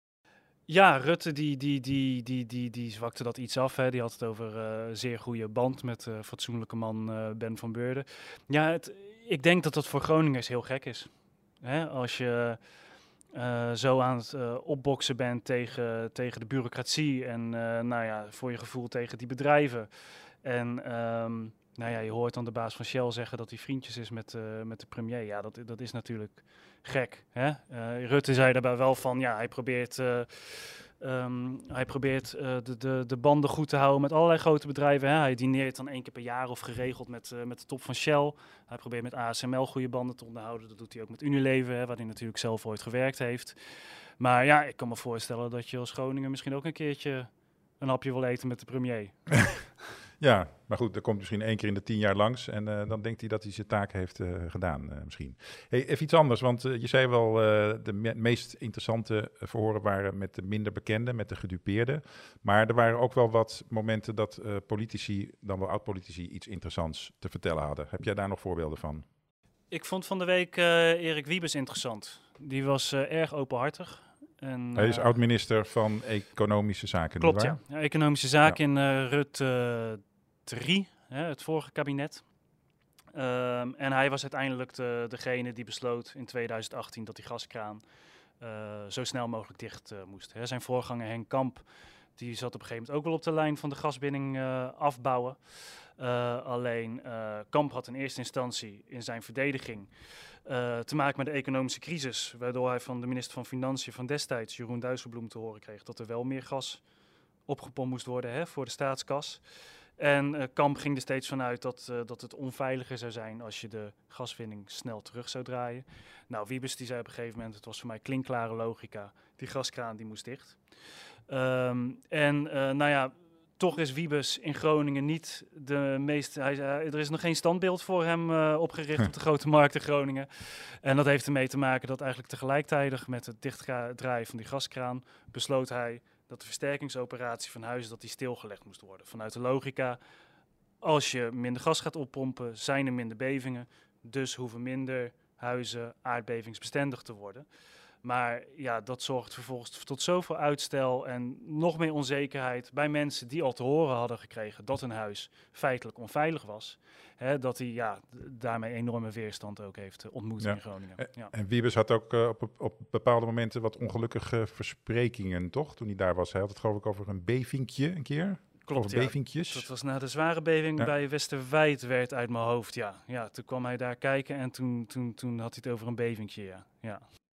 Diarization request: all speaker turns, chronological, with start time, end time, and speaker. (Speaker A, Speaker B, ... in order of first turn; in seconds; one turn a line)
Speaker A: 0.7-11.1
Speaker A: 11.6-12.6
Speaker A: 13.3-19.9
Speaker A: 20.4-43.6
Speaker A: 44.2-49.6
Speaker B: 50.2-69.0
Speaker A: 69.7-75.2
Speaker B: 74.8-77.6
Speaker A: 77.2-82.2
Speaker A: 83.1-87.8
Speaker A: 88.4-91.7
Speaker A: 92.2-99.9
Speaker A: 100.5-106.8
Speaker A: 107.5-109.4
Speaker A: 110.0-120.6
Speaker A: 121.3-140.0
Speaker A: 140.8-147.5
Speaker A: 148.0-161.3
Speaker B: 160.4-169.7
Speaker A: 168.7-177.0